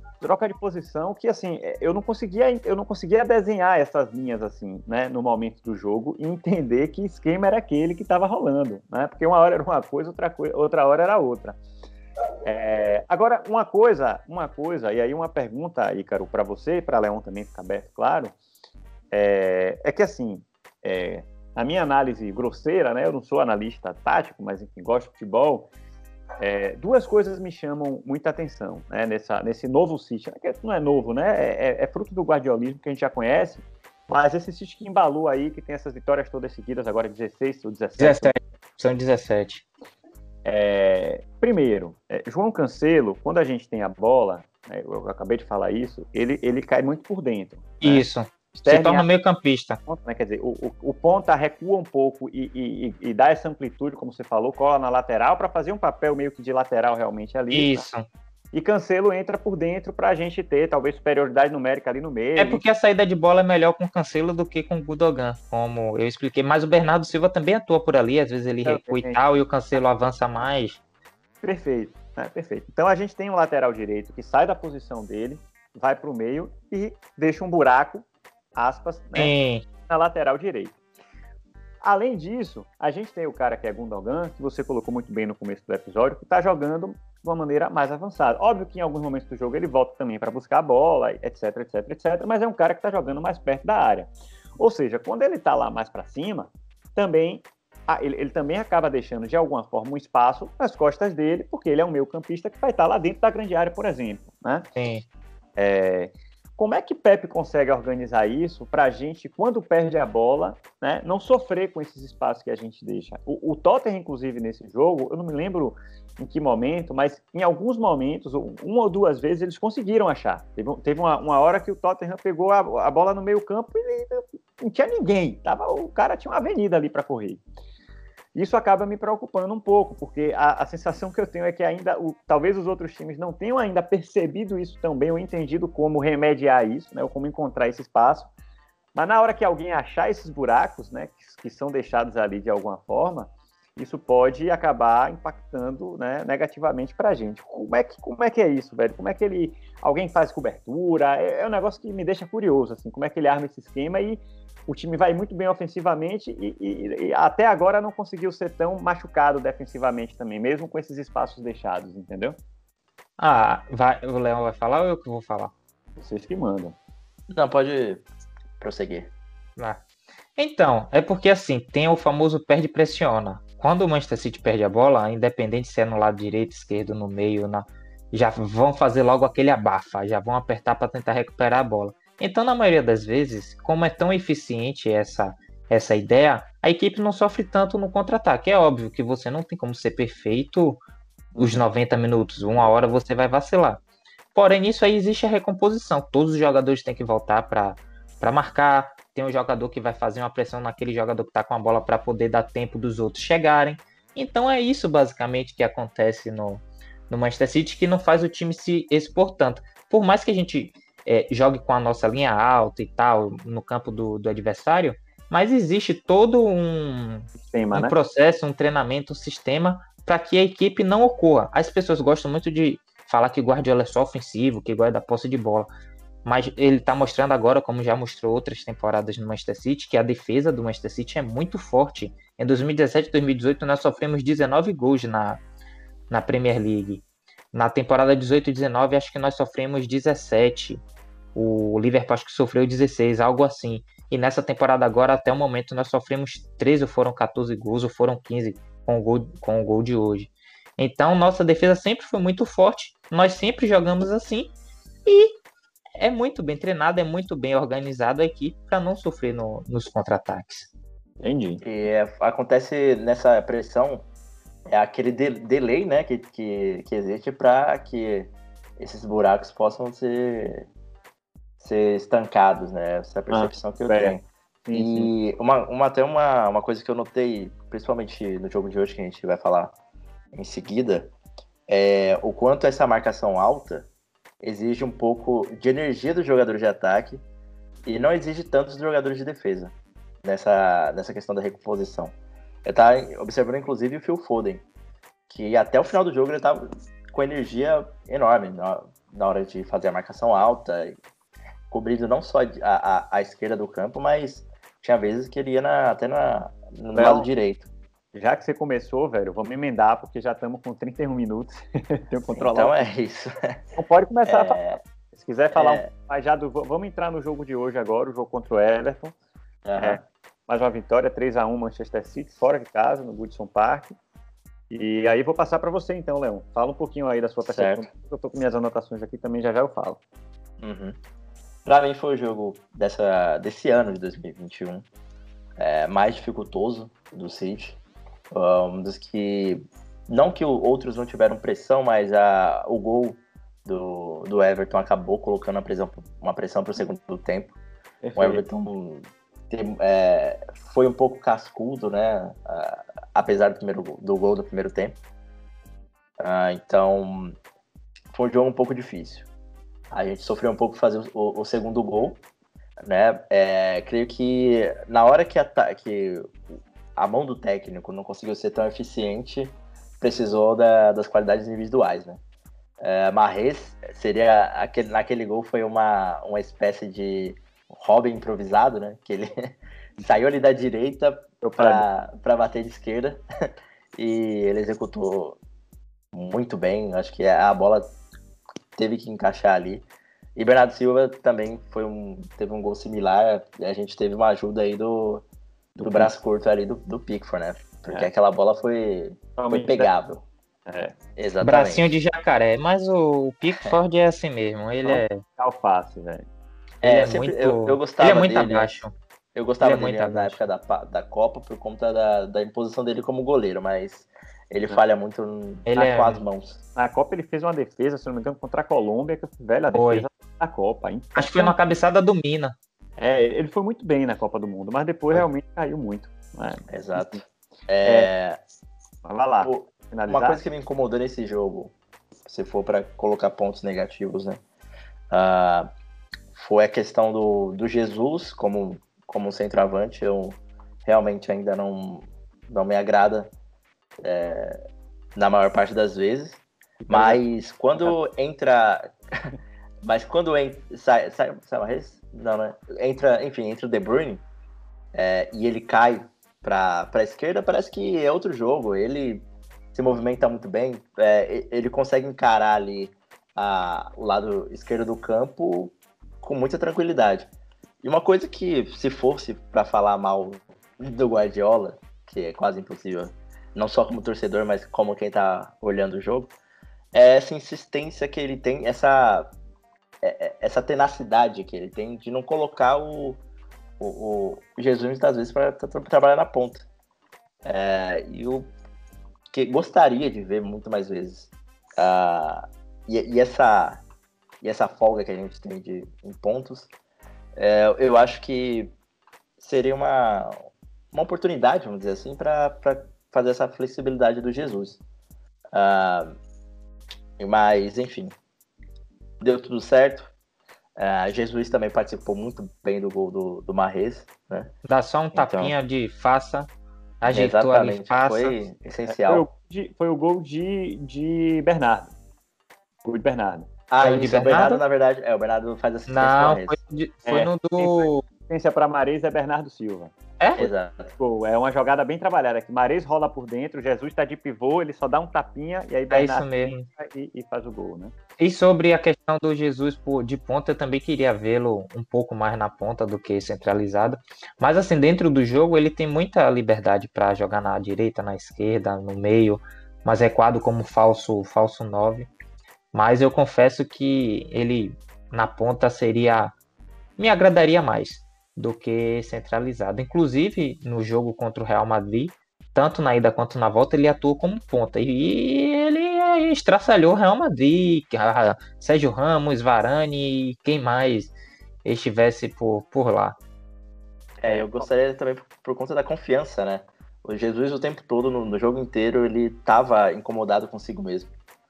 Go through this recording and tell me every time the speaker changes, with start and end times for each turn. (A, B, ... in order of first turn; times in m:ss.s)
0:00.2-0:11.6 A
0:12.4-0:18.3 A
0:19.1-0:25.7 A
0:26.4-0:38.3 A
0:38.0-0:39.6 B
0:40.4-0:49.1 A
0:47.8-0:49.8 B
0:49.8-0:57.8 A
0:57.5-0:58.1 B
0:58.5-1:02.6 A
1:02.4-1:10.8 B
1:08.6-1:09.2 A
1:11.4-1:19.3 A
1:19.2-1:19.6 B
1:19.8-1:20.7 A
1:21.8-1:44.7 A
1:44.8-1:45.0 B
1:45.6-2:07.4 A
2:08.3-2:18.3 A
2:18.9-2:42.4 A
2:43.2-2:45.5 B
2:46.0-2:46.8 A
2:47.3-2:48.0 C
2:48.6-2:49.1 C
2:49.6-2:49.8 B
2:50.4-3:10.8 B
3:11.3-3:11.6 A
3:11.4-3:13.8 B
3:14.3-3:45.7 B
3:37.4-3:37.9 A
3:46.2-3:55.4 B
3:56.1-4:00.8 B
4:01.3-4:14.5 B
4:15.0-4:15.3 B
4:16.0-4:20.7 B
4:21.2-4:21.6 A
4:21.6-4:24.0 C
4:24.7-4:30.7 C
4:31.6-4:39.8 C
4:33.3-4:35.1 A
4:40.3-4:41.1 C
4:41.7-4:43.9 C
4:44.4-4:47.2 C
4:47.8-4:52.1 C
4:52.6-4:54.6 C
4:55.3-5:01.0 C
5:01.7-5:07.7 C
5:06.9-5:07.3 A
5:08.1-5:12.8 A
5:12.3-5:13.6 C
5:13.8-5:14.6 A
5:14.2-5:14.8 C
5:15.1-5:19.1 A
5:15.5-5:15.9 C
5:19.6-5:20.0 C
5:19.8-5:23.9 A
5:24.7-5:30.0 A
5:27.4-5:27.9 C
5:30.6-5:31.0 C
5:31.6-5:34.8 C
5:35.6-5:37.8 C
5:38.3-5:47.6 C
5:48.0-5:48.4 A
5:48.2-5:55.0 C
5:56.2-5:57.4 C
5:58.1-5:59.3 C
5:59.9-6:02.2 C
6:02.8-6:06.3 C
6:07.0-6:12.2 C
6:12.8-6:23.2 C
6:21.4-6:21.9 A
6:24.0-6:25.4 C
6:26.1-6:27.9 C
6:28.8-6:35.2 C
6:35.8-6:40.2 C
6:35.8-6:36.1 A
6:39.4-6:39.9 A
6:40.7-6:41.0 A
6:41.2-6:41.9 C
6:41.4-6:45.2 B
6:44.8-6:46.2 A
6:46.8-6:48.7 C
6:46.8-6:48.9 B
6:49.3-6:56.6 C
6:49.6-6:50.4 B
6:55.7-6:56.2 B
6:56.7-7:01.6 A
6:59.7-7:00.1 B
7:01.1-7:02.6 B
7:03.0-7:07.2 A
7:06.7-7:08.4 C
7:07.8-7:08.1 A
7:09.0-7:10.4 A
7:09.4-7:11.7 C
7:12.2-7:14.4 C
7:15.1-7:15.7 C
7:16.3-7:23.3 C
7:24.0-7:24.6 C
7:25.1-7:28.9 C
7:26.8-7:27.2 A
7:29.8-7:34.2 C
7:34.9-7:47.3 C
7:47.8-7:56.3 C
7:56.9-7:59.3 C
8:00.0-8:03.2 C
8:03.8-8:06.6 C
8:07.4-8:08.5 C
8:09.3-8:13.8 C
8:14.4-8:16.7 C
8:17.4-8:18.7 C
8:19.4-8:20.3 C
8:20.9-8:24.8 C
8:25.5-8:26.2 C
8:27.2-8:28.2 C
8:29.2-8:30.1 C
8:30.8-8:34.5 C
8:34.6-8:36.5 B
8:35.1-8:35.5 C
8:37.0-8:38.4 B
8:37.1-8:39.2 C
8:38.9-8:41.9 A
8:42.8-8:43.5 A
8:43.7-8:46.6 C
8:43.8-8:44.6 B
8:45.9-8:48.0 B
8:47.0-8:49.9 A
8:50.2-8:50.5 B
8:50.4-8:50.9 C
8:51.0-8:57.9 A
8:55.9-8:56.7 B
8:58.2-9:12.1 B
9:12.7-9:16.3 B
9:17.0-9:33.2 B
9:34.2-9:41.1 C